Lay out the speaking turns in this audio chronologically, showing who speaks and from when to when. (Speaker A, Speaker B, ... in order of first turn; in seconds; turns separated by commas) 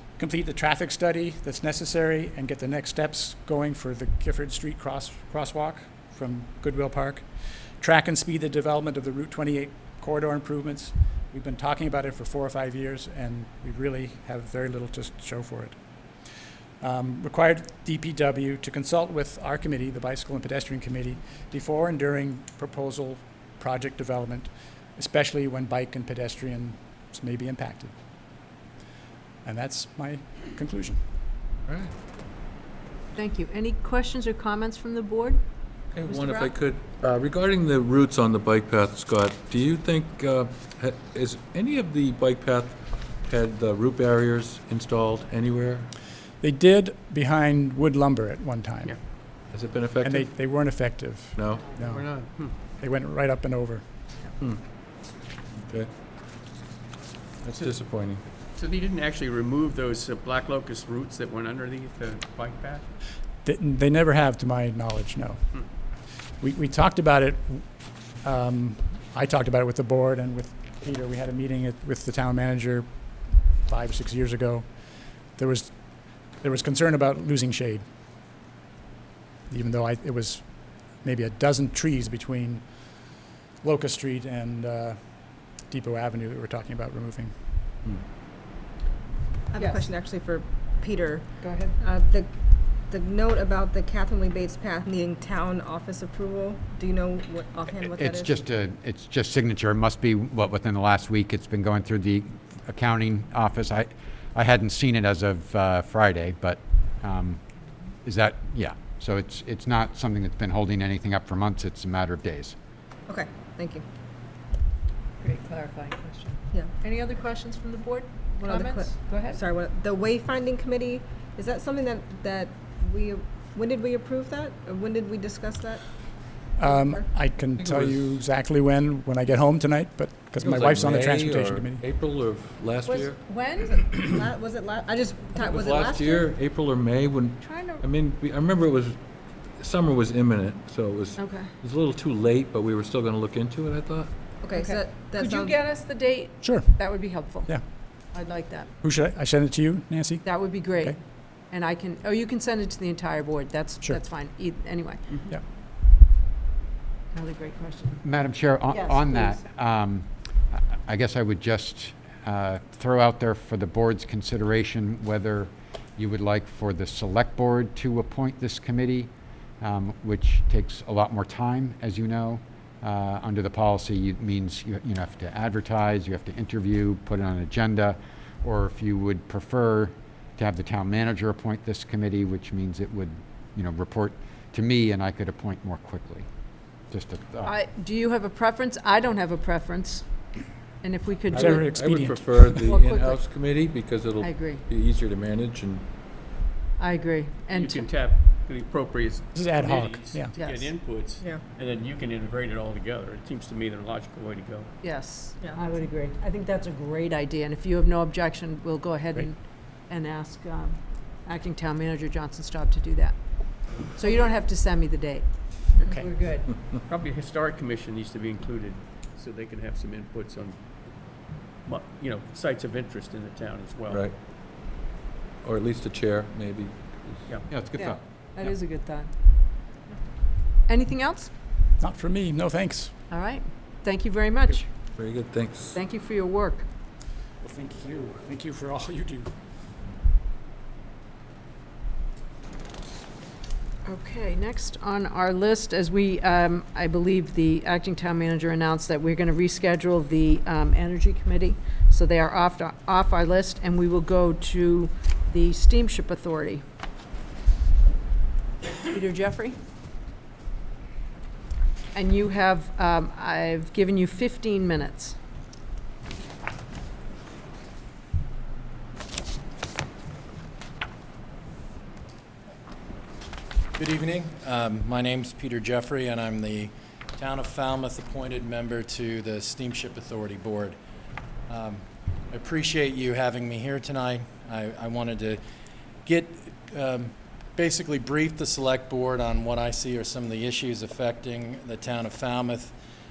Speaker A: 0.2-15.8, Speaker A: 16.8-27.9, Speaker A: 29.4-31.0, Speaker B: 31.7-31.9, Speaker C: 33.1-35.4, Speaker B: 35.9-45.9, Speaker C: 36.0-36.5, Speaker A: 46.4-49.0, Speaker B: 49.5-50.4, Speaker A: 50.0-53.9, Speaker B: 51.4-51.7, Speaker D: 51.9-52.5, Speaker B: 55.5-55.9, Speaker B: 57.4-58.2, Speaker D: 58.5-62.9, Speaker A: 63.4-65.4, Speaker A: 66.4-67.7, Speaker A: 68.2-72.9, Speaker A: 73.6-74.7, Speaker A: 75.3-77.9, Speaker A: 79.5-87.3, Speaker E: 89.5-98.4, Speaker C: 89.6-89.9, Speaker C: 91.4-91.8, Speaker F: 97.8-107.4, Speaker F: 108.0-112.5, Speaker E: 113.1-113.8, Speaker C: 115.2-119.4, Speaker E: 118.4-126.0, Speaker E: 126.5-127.1, Speaker A: 126.6-131.8, Speaker B: 127.6-128.2, Speaker B: 130.4-133.2, Speaker C: 132.8-134.0, Speaker E: 133.6-136.3, Speaker B: 135.3-139.0, Speaker C: 137.4-137.8, Speaker B: 139.6-144.1, Speaker C: 141.2-141.5, Speaker E: 144.4-145.6, Speaker C: 144.5-148.7, Speaker A: 146.4-147.6, Speaker A: 148.8-151.0, Speaker C: 150.2-155.2, Speaker D: 155.1-155.4, Speaker C: 157.1-158.0, Speaker F: 158.0-186.3, Speaker C: 158.7-159.4, Speaker F: 186.9-187.5, Speaker C: 187.4-191.8, Speaker A: 191.3-192.8, Speaker B: 191.3-195.9, Speaker C: 192.7-193.3, Speaker C: 194.2-194.7, Speaker C: 196.8-197.9, Speaker D: 197.5-204.7, Speaker A: 199.3-200.3, Speaker C: 200.3-200.8, Speaker C: 204.8-216.8, Speaker A: 215.8-216.1, Speaker D: 216.8-224.1, Speaker B: 223.9-224.2, Speaker B: 225.4-226.8, Speaker D: 227.1-227.5, Speaker F: 227.5-228.0, Speaker C: 227.7-229.1, Speaker C: 230.7-231.3, Speaker A: 231.8-233.0, Speaker C: 233.1-234.7, Speaker B: 234.9-235.8, Speaker C: 235.7-236.7, Speaker A: 237.4-239.3, Speaker C: 243.8-256.6, Speaker C: 258.9-259.6, Speaker C: 261.9-265.2, Speaker G: 273.8-280.8, Speaker G: 281.5-285.4, Speaker G: 286.1-292.7